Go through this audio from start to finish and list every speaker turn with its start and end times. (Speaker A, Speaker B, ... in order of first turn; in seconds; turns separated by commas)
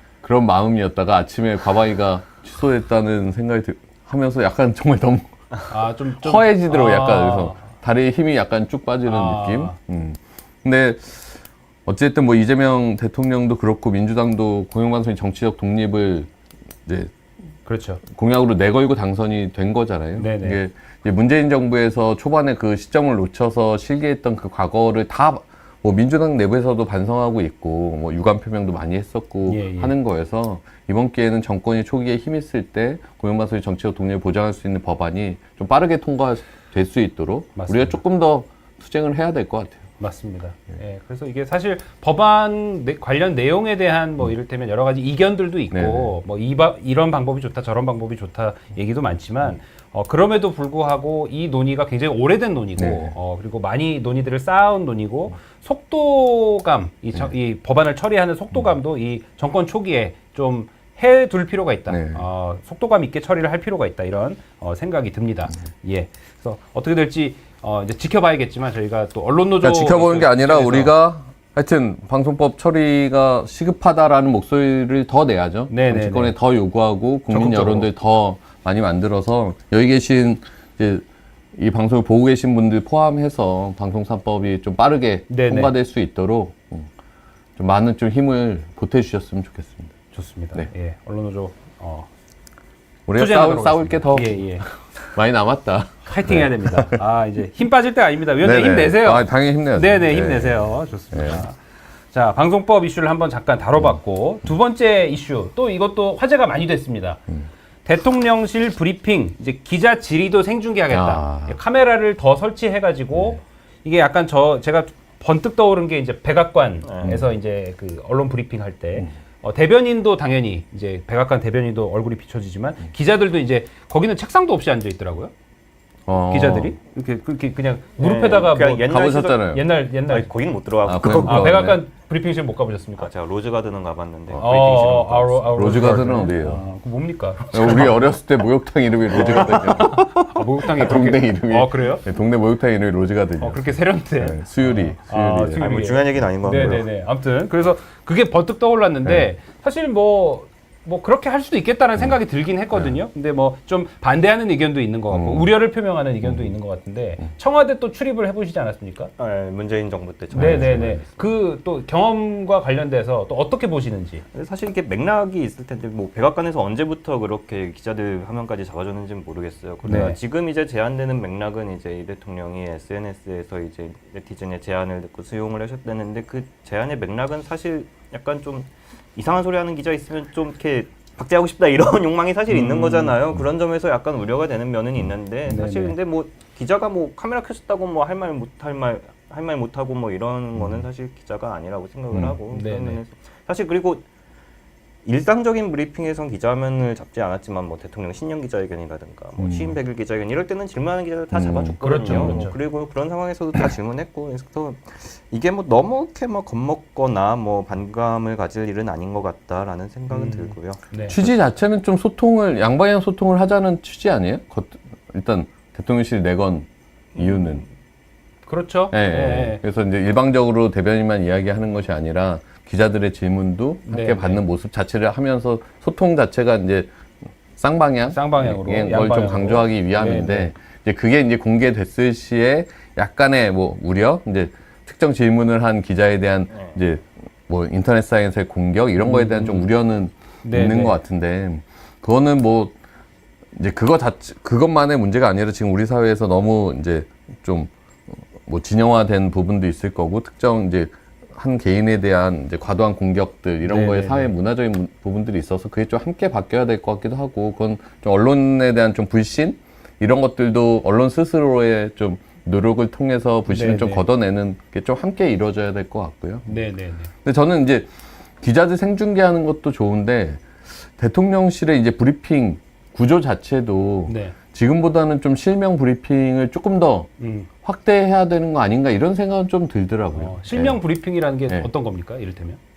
Speaker A: 0.2-5.5, Speaker B: 5.7-7.7, Speaker A: 6.2-16.3, Speaker B: 9.1-9.8, Speaker A: 16.8-17.1, Speaker B: 17.6-18.0, Speaker A: 18.1-39.8, Speaker B: 20.2-20.6, Speaker B: 29.4-29.9, Speaker B: 37.5-38.0, Speaker B: 40.0-70.9, Speaker A: 45.7-46.1, Speaker A: 52.8-53.1, Speaker A: 61.9-62.2, Speaker A: 69.6-86.9, Speaker B: 75.7-76.3, Speaker B: 77.3-77.9, Speaker B: 85.3-85.7, Speaker A: 87.6-89.9, Speaker B: 90.1-92.1, Speaker A: 93.0-97.0, Speaker B: 93.1-94.6, Speaker B: 96.0-101.6, Speaker A: 98.4-101.4, Speaker B: 102.1-107.2, Speaker B: 107.8-125.3, Speaker A: 110.9-111.6, Speaker C: 116.8-117.2, Speaker A: 117.0-117.3, Speaker A: 126.0-126.7, Speaker B: 126.3-130.3, Speaker C: 128.0-129.4, Speaker A: 128.9-129.6, Speaker C: 130.1-131.7, Speaker A: 130.8-131.8, Speaker B: 131.0-133.1, Speaker C: 133.0-135.7, Speaker B: 134.3-137.9, Speaker A: 135.5-136.6, Speaker A: 137.5-145.6, Speaker B: 139.1-142.0, Speaker C: 139.2-139.8, Speaker B: 143.4-159.1, Speaker C: 145.5-146.9, Speaker A: 149.0-149.3, Speaker A: 155.1-155.5, Speaker A: 156.2-156.5, Speaker C: 159.2-161.2, Speaker A: 160.3-161.0, Speaker B: 160.3-164.2, Speaker C: 164.3-194.0, Speaker B: 169.8-170.2, Speaker A: 169.9-170.1, Speaker B: 182.5-183.2, Speaker B: 185.4-185.9, Speaker A: 190.6-190.8, Speaker A: 192.1-192.4, Speaker B: 192.5-193.0, Speaker C: 195.0-211.3, Speaker A: 199.4-199.8, Speaker A: 201.3-202.4, Speaker B: 201.8-202.6, Speaker B: 210.1-211.2, Speaker A: 211.1-217.6, Speaker C: 217.1-217.7, Speaker B: 218.4-219.6, Speaker A: 218.9-226.9, Speaker B: 223.9-224.4, Speaker A: 227.5-242.8, Speaker B: 228.1-230.5, Speaker C: 236.5-236.8, Speaker B: 239.0-239.7, Speaker B: 240.4-241.0, Speaker A: 243.5-266.6, Speaker B: 253.6-254.3, Speaker B: 263.5-264.0, Speaker B: 266.5-267.1, Speaker A: 267.2-277.1, Speaker B: 274.1-274.4, Speaker B: 277.2-277.5, Speaker A: 277.6-280.8, Speaker B: 280.1-282.6